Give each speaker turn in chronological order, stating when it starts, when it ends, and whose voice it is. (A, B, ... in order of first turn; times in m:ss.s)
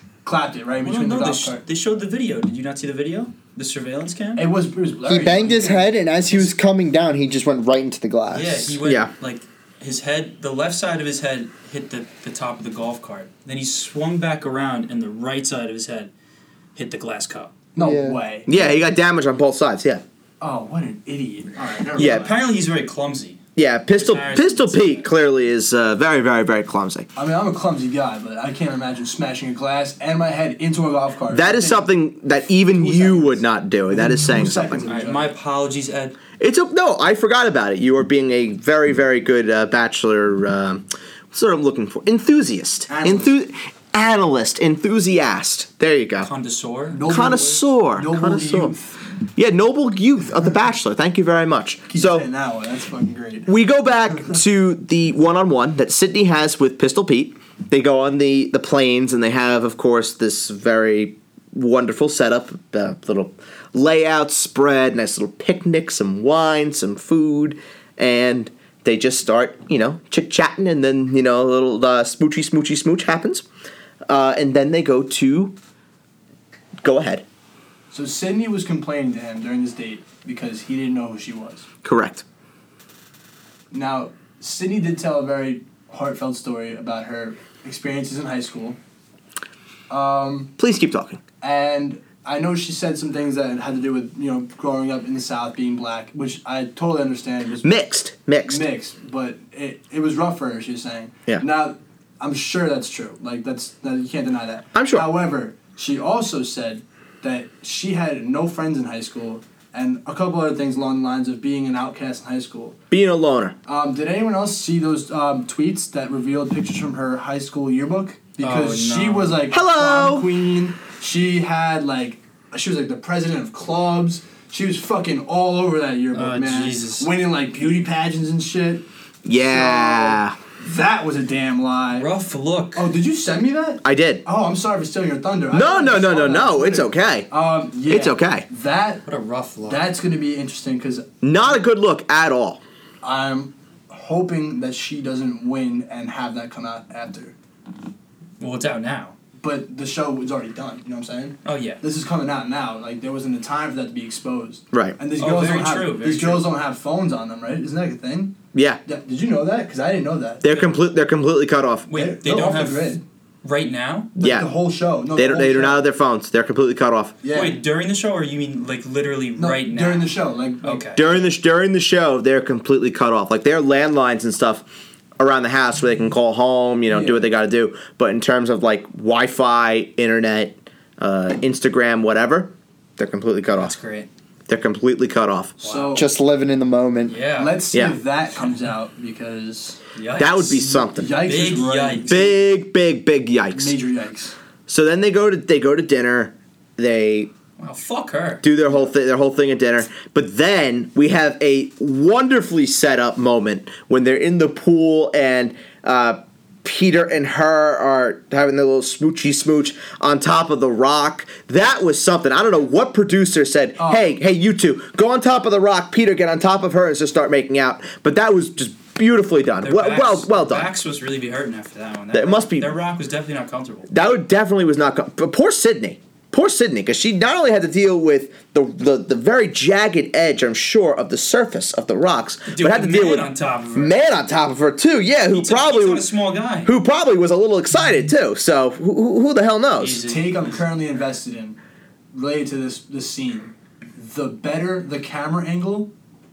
0:00.2-0:01.6 A
0:00.8-0:04.5 B
0:04.4-0:06.0 A
0:05.0-0:08.8 C
0:08.3-0:16.1 B
0:08.8-0:09.1 D
0:16.7-0:17.5 B
0:17.7-0:18.5 A
0:17.8-0:18.2 C
0:18.5-0:20.0 D
0:20.4-0:22.3 A
0:22.0-0:23.4 B
0:22.0-0:22.3 D
0:23.6-0:27.1 D
0:23.9-0:25.1 B
0:27.2-0:31.9 A
0:31.3-0:34.9 D
0:32.5-0:35.3 A
0:34.9-0:36.2 B
0:36.4-0:46.3 D
0:42.9-0:43.3 A
0:46.2-0:47.0 B
0:46.9-0:49.0 A
0:47.0-0:48.7 D
0:49.3-0:52.3 D
0:51.9-0:53.5 A
0:53.5-1:13.4 D
1:14.1-1:15.5 D
1:16.8-1:17.2 D
1:17.9-1:21.6 A
1:21.8-1:22.2 D
1:23.7-1:28.8 A
1:29.9-1:30.5 A
1:30.6-1:31.2 D
1:31.4-1:37.7 A
1:37.6-1:38.6 D
1:38.4-1:52.8 A
1:44.7-1:45.1 D
1:52.9-1:53.5 D
1:53.6-2:12.1 A
1:58.4-1:59.4 B
1:59.5-2:00.3 D
2:06.1-2:07.1 B
2:09.2-2:10.4 D
2:11.9-2:12.9 B
2:12.7-2:19.0 A
2:13.8-2:14.2 D
2:15.5-2:17.3 D
2:17.9-2:18.4 D
2:19.0-2:19.8 B
2:19.6-2:21.6 A
2:21.2-2:22.6 D
2:23.0-2:27.3 A
2:28.4-2:29.2 B
2:29.4-2:40.4 A
2:31.4-2:31.8 B
2:34.7-2:35.0 D
2:35.2-2:36.4 B
2:38.5-2:38.8 D
2:40.4-2:41.9 D
2:40.4-2:40.8 B
2:41.9-2:44.1 B
2:41.9-2:43.0 A
2:44.2-2:44.5 D
2:44.2-2:45.8 A
2:45.2-2:47.2 D
2:47.2-2:47.6 A
2:47.3-2:50.1 B
2:49.4-2:51.0 A
2:50.6-2:51.0 B
2:51.0-2:54.6 D
2:55.2-3:03.7 D
2:56.9-2:57.2 A
3:03.6-3:04.1 B
3:04.5-3:05.6 D
3:05.6-3:06.0 B
3:05.6-3:06.0 A
3:05.9-3:07.2 C
3:07.1-3:07.6 B
3:07.4-3:09.8 A
3:09.9-3:10.6 B
3:10.2-3:11.2 D
3:10.5-3:12.4 A
3:11.2-3:12.3 B
3:12.1-3:13.8 D
3:13.5-3:14.4 A
3:14.7-3:17.3 D
3:17.6-3:18.4 B
3:18.4-3:40.7 D
3:33.8-3:34.0 A
3:39.6-3:43.9 B
3:42.1-3:42.7 D
3:43.9-3:56.1 D
3:52.5-3:53.9 B
3:55.3-3:56.7 B
3:56.6-4:00.0 D
3:59.8-4:00.6 B
4:00.0-4:01.6 A
4:02.1-4:05.9 A